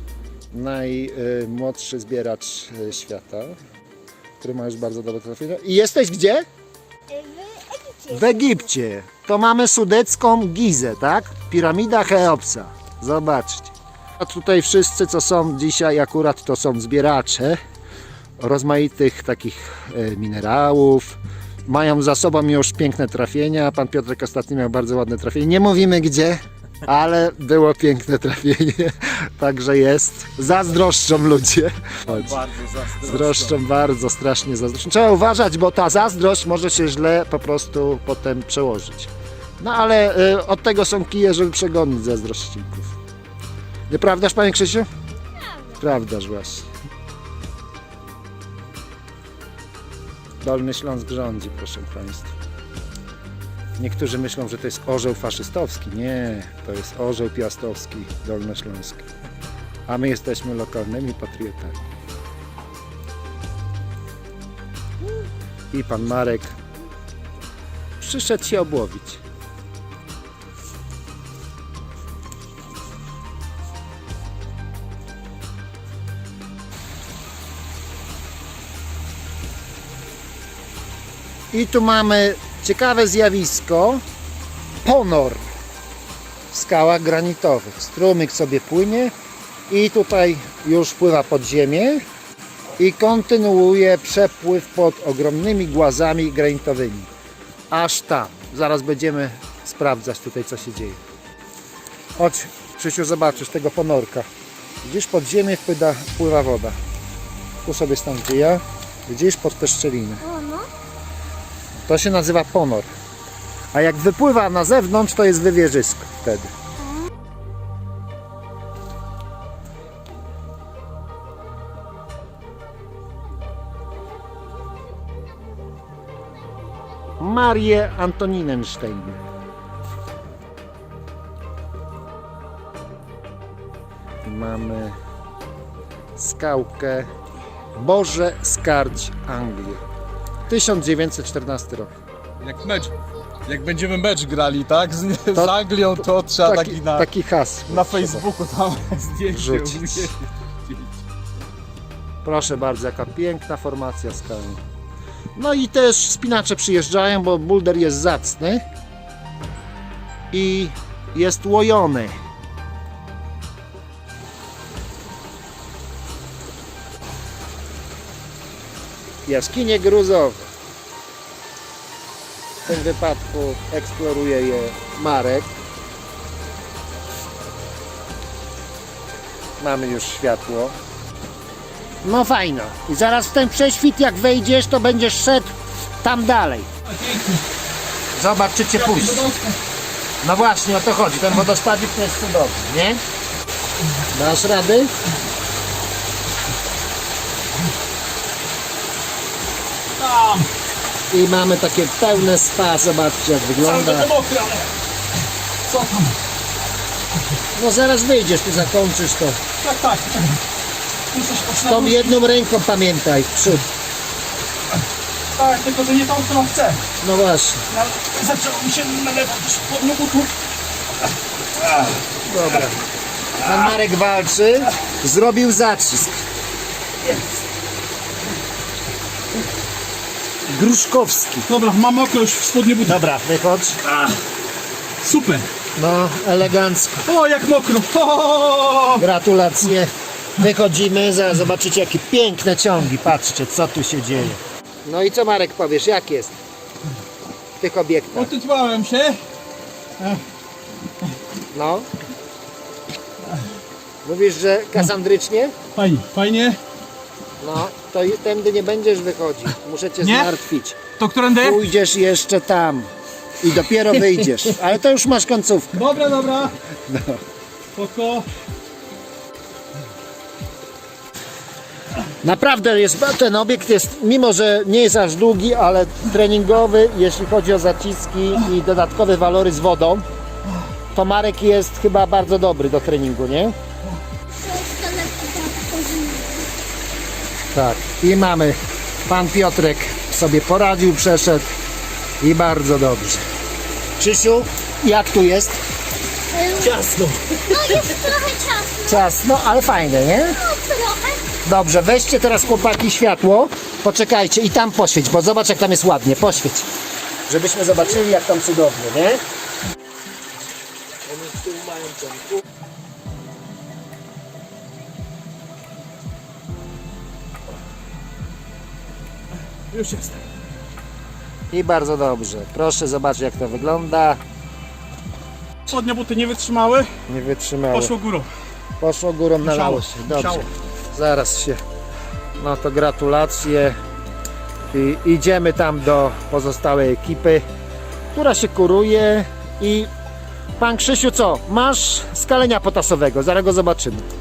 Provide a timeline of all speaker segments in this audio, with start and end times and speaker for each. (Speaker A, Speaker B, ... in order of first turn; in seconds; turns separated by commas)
Speaker A: 0.5-3.6, Speaker A: 4.4-6.5, Speaker B: 7.1-8.5, Speaker A: 8.1-17.6, Speaker A: 18.4-43.0, Speaker C: 32.2-33.5, Speaker A: 43.9-44.9, Speaker A: 45.7-46.7, Speaker A: 50.4-52.3, Speaker A: 53.8-59.0, Speaker A: 59.9-61.8, Speaker A: 65.7-66.6, Speaker A: 68.0-69.2, Speaker A: 81.5-84.0, Speaker A: 84.8-85.5, Speaker A: 86.5-89.1, Speaker A: 89.7-92.0, Speaker A: 92.8-97.1, Speaker A: 97.7-101.0, Speaker A: 102.2-104.3, Speaker A: 104.8-106.8, Speaker A: 107.7-110.3, Speaker B: 110.3-110.7, Speaker A: 111.9-112.9, Speaker A: 113.7-116.5, Speaker A: 127.2-129.2, Speaker A: 134.2-134.9, Speaker A: 136.2-137.1, Speaker A: 137.8-139.8, Speaker A: 140.5-141.9, Speaker C: 142.4-142.9, Speaker C: 143.4-147.1, Speaker A: 145.3-148.2, Speaker C: 147.7-151.0, Speaker A: 149.3-150.1, Speaker A: 152.2-154.6, Speaker A: 155.3-158.6, Speaker A: 160.3-162.2, Speaker A: 169.2-170.5, Speaker A: 172.6-175.5, Speaker A: 179.6-180.8, Speaker A: 182.0-186.7, Speaker C: 186.8-187.4, Speaker A: 188.1-189.3, Speaker C: 188.8-189.6, Speaker A: 190.2-193.0, Speaker A: 194.1-194.9, Speaker C: 200.0-200.5, Speaker A: 201.1-204.1, Speaker C: 203.6-204.7, Speaker C: 205.7-206.2, Speaker A: 207.5-209.4, Speaker C: 209.6-210.4, Speaker C: 211.1-212.2, Speaker A: 211.7-213.7, Speaker C: 215.3-216.8, Speaker A: 217.0-217.6, Speaker C: 217.7-220.3, Speaker A: 222.2-222.8, Speaker A: 223.4-226.2, Speaker A: 230.5-231.5, Speaker C: 231.5-233.0, Speaker A: 232.8-233.8, Speaker C: 233.8-234.2, Speaker C: 235.0-235.5, Speaker A: 235.8-237.0, Speaker C: 237.0-239.1, Speaker A: 238.9-246.4, Speaker A: 247.6-248.3, Speaker C: 248.1-249.2, Speaker A: 251.5-251.9, Speaker A: 254.0-255.6, Speaker C: 255.8-256.6, Speaker A: 257.4-260.8, Speaker C: 260.0-260.3, Speaker C: 261.0-261.6, Speaker A: 261.4-262.9, Speaker A: 263.4-265.8, Speaker C: 265.7-266.6, Speaker A: 266.9-267.2, Speaker C: 267.7-268.3, Speaker A: 272.2-280.1, Speaker A: 280.9-283.6, Speaker B: 284.3-286.5, Speaker A: 287.5-291.4, Speaker A: 292.2-293.2, Speaker A: 294.0-295.6, Speaker B: 296.3-296.9, Speaker C: 296.8-297.3, Speaker B: 297.4-299.0, Speaker A: 298.8-300.5, Speaker B: 300.4-301.3, Speaker A: 301.4-306.7, Speaker A: 307.3-309.2, Speaker C: 311.1-312.4, Speaker C: 319.7-320.2, Speaker A: 321.5-324.2, Speaker C: 325.6-326.9, Speaker A: 327.1-327.9, Speaker C: 327.7-328.3, Speaker A: 328.8-331.6, Speaker C: 329.4-330.5, Speaker A: 332.4-333.8, Speaker A: 334.7-337.4, Speaker A: 338.1-339.9, Speaker A: 340.6-344.1